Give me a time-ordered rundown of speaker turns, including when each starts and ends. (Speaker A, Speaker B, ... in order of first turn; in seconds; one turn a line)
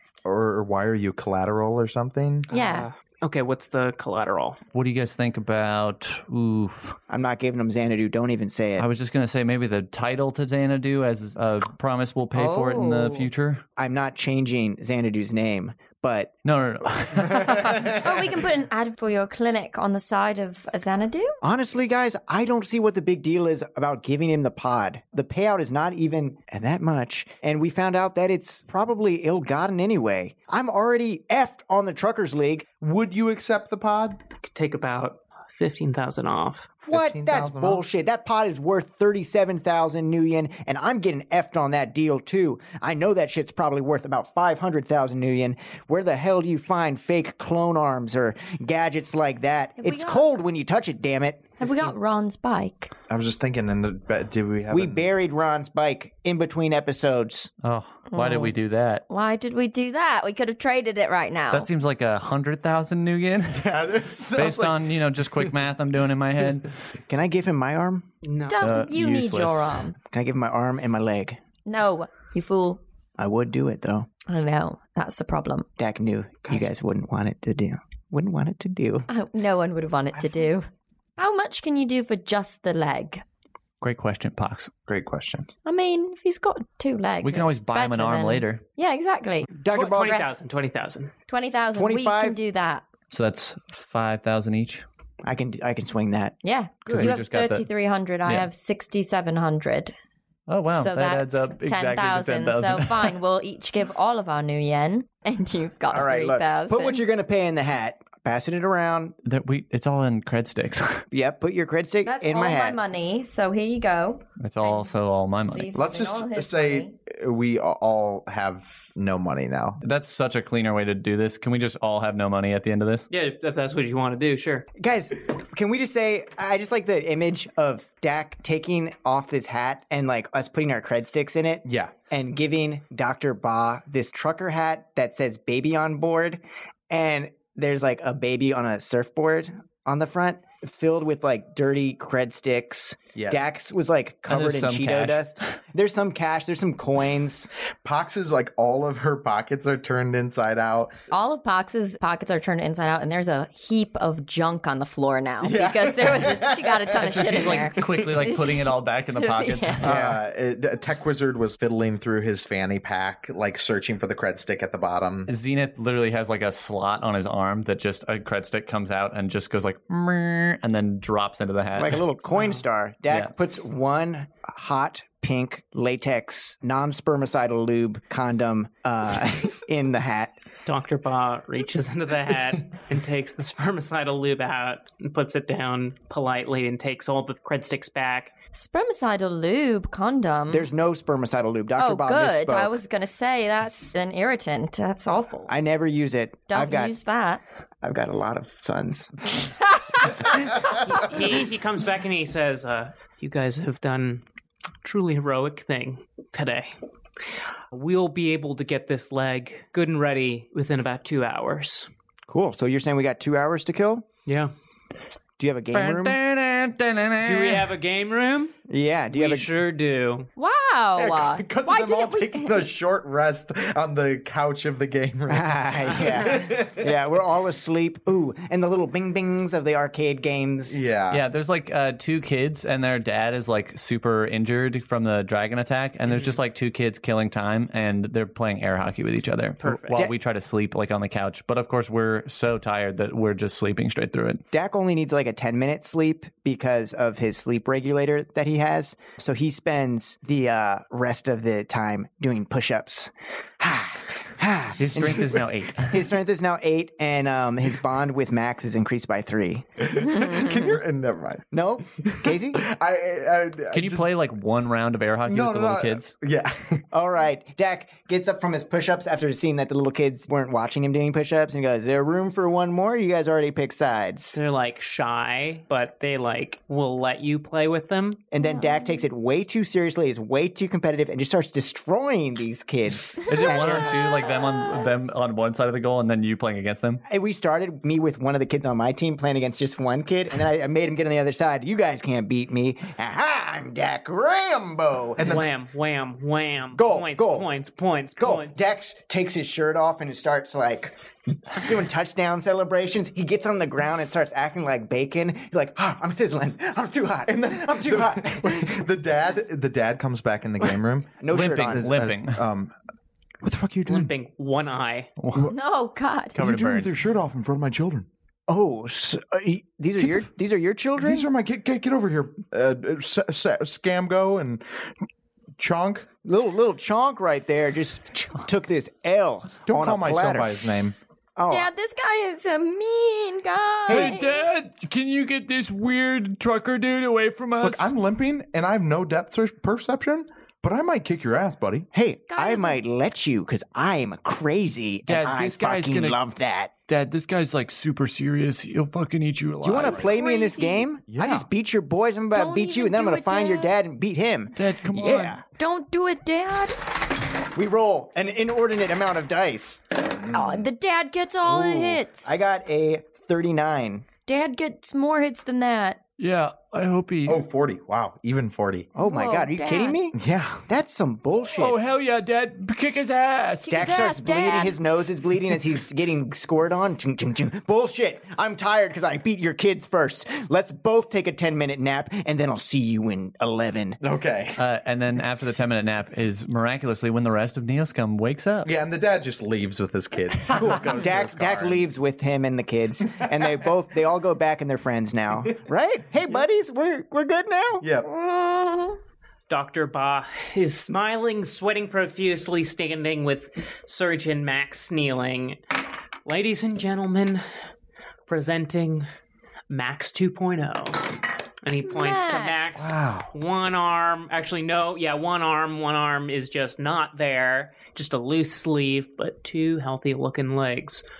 Speaker A: 0.2-2.5
Speaker B: 2.5-2.9
Speaker C: 2.5-4.6
Speaker D: 4.7-7.0
Speaker E: 7.1-8.9
Speaker D: 8.8-13.6
Speaker B: 12.3-13.3
Speaker E: 13.8-16.3
Speaker D: 16.4-18.0
Speaker B: 18.0-21.4
Speaker E: 21.4-32.7
Speaker A: 32.8-34.2
Speaker C: 34.4-36.7
Speaker E: 36.9-51.6
Speaker A: 36.9-37.8
Speaker B: 49.8-50.2
Speaker B: 51.6-52.9
Speaker A: 53.1-55.1
Speaker E: 54.7-57.5
Speaker D: 57.6-59.0
Speaker B: 58.1-58.6
Speaker B: 59.1-61.7
Speaker D: 61.5-66.8
Speaker A: 63.5-64.8
Speaker E: 67.1-68.1
Speaker C: 68.2-68.7
Speaker B: 68.5-70.0
Speaker D: 68.6-69.8
Speaker E: 70.1-71.4
Speaker B: 71.7-72.8
Speaker E: 73.2-74.1
Speaker B: 74.3-75.7
Speaker E: 75.8-79.1
Speaker B: 79.1-83.2
Speaker A: 80.2-80.5
Speaker D: 83.8-84.7
Speaker A: 84.9-85.5
Speaker B: 85.7-90.3
Speaker D: 87.2-88.6
Speaker E: 89.6-90.2
Speaker C: 89.7-91.1
Speaker B: 91.3-92.9
Speaker E: 91.7-92.4
Speaker D: 93.1-94.8
Speaker E: 95.2-96.4
Speaker B: 96.4-99.9
Speaker D: 96.9-97.7
Speaker D: 100.5-103.1
Speaker B: 100.7-107.0
Speaker E: 105.9-109.2
Speaker D: 109.2-111.0
Speaker E: 111.1-112.8
Speaker B: 112.0-114.9
Speaker D: 114.4-115.7
Speaker B: 115.5-116.9
Speaker A: 115.7-119.8
Speaker D: 119.8-123.1
Speaker C: 123.1-124.7
Speaker E: 124.8-147.5
Speaker A: 131.7-131.9
Speaker A: 143.2-143.4
Speaker D: 144.3-145.2
Speaker A: 147.8-151.0
Speaker B: 151.1-160.0
Speaker A: 155.4-158.2
Speaker D: 157.1-160.0
Speaker A: 159.8-165.3
Speaker E: 159.9-160.2
Speaker D: 165.3-172.0
Speaker E: 171.8-180.3
Speaker C: 172.3-172.6
Speaker C: 180.7-188.3
Speaker B: 188.5-190.7
Speaker E: 190.5-192.8
Speaker B: 191.8-195.5
Speaker E: 195.5-196.9
Speaker B: 196.5-197.4
Speaker E: 197.8-199.3
Speaker C: 200.8-204.2
Speaker C: 204.8-206.7
Speaker C: 207.7-211.9
Speaker E: 212.3-214.1
Speaker C: 214.3-214.5
Speaker E: 215.4-216.2
Speaker D: 215.7-217.7
Speaker C: 217.2-218.6
Speaker E: 218.7-219.5
Speaker C: 219.1-220.3
Speaker B: 220.4-222.7
Speaker A: 221.0-226.9
Speaker E: 225.3-230.8
Speaker A: 230.7-231.2
Speaker D: 231.1-244.4
Speaker C: 236.1-236.4
Speaker C: 239.6-240.0
Speaker E: 244.5-259.7
Speaker D: 254.8-256.1
Speaker A: 259.8-261.5
Speaker E: 261.5-262.7
Speaker A: 262.0-264.1
Speaker D: 263.7-266.1
Speaker A: 265.3-266.9
Speaker E: 266.9-274.4
Speaker C: 274.3-278.2
Speaker E: 278.3-283.9
Speaker B: 278.4-278.9
Speaker D: 283.3-287.0
Speaker B: 283.4-284.3
Speaker E: 287.1-295.4
Speaker A: 295.2-295.5
Speaker C: 295.2-298.6
Speaker E: 296.7-297.5
Speaker E: 298.2-308.8
Speaker A: 307.3-312.7
Speaker E: 311.2-312.0
Speaker D: 311.3-312.4
Speaker A: 313.4-314.1
Speaker C: 313.9-315.1
Speaker D: 315.2-315.5
Speaker B: 315.5-316.4
Speaker A: 316.4-318.1
Speaker D: 316.4-317.0
Speaker E: 318.5-321.3
Speaker A: 320.0-320.3
Speaker A: 321.0-324.6
Speaker A: 325.6-326.1
Speaker E: 326.2-330.6
Speaker A: 329.7-331.0
Speaker E: 331.4-331.7
Speaker B: 331.5-334.3
Speaker E: 333.9-334.2
Speaker D: 333.9-337.9
Speaker A: 337.6-341.9
Speaker E: 341.9-346.7
Speaker B: 342.3-342.8
Speaker D: 345.1-346.2
Speaker D: 346.9-350.1
Speaker E: 349.6-355.4
Speaker B: 349.9-350.9
Speaker A: 351.1-351.5
Speaker B: 352.3-353.7
Speaker D: 354.6-355.4
Speaker B: 355.6-356.8
Speaker E: 357.6-359.9
Speaker B: 360.3-362.4
Speaker E: 361.4-364.1
Speaker B: 364.3-366.0
Speaker D: 366.2-367.4
Speaker A: 367.3-368.9
Speaker E: 368.9-371.8
Speaker B: 369.0-370.0
Speaker A: 370.1-370.6
Speaker D: 371.6-373.9
Speaker B: 373.6-374.8
Speaker E: 373.7-384.0
Speaker A: 384.0-384.6
Speaker D: 384.6-388.7
Speaker A: 388.6-391.9
Speaker D: 390.5-391.3
Speaker E: 390.5-397.9
Speaker A: 397.8-398.1
Speaker B: 398.1-399.0
Speaker C: 399.5-405.6
Speaker C: 406.2-407.4
Speaker C: 408.3-409.1
Speaker C: 409.7-421.0
Speaker B: 411.8-412.7
Speaker A: 412.8-413.3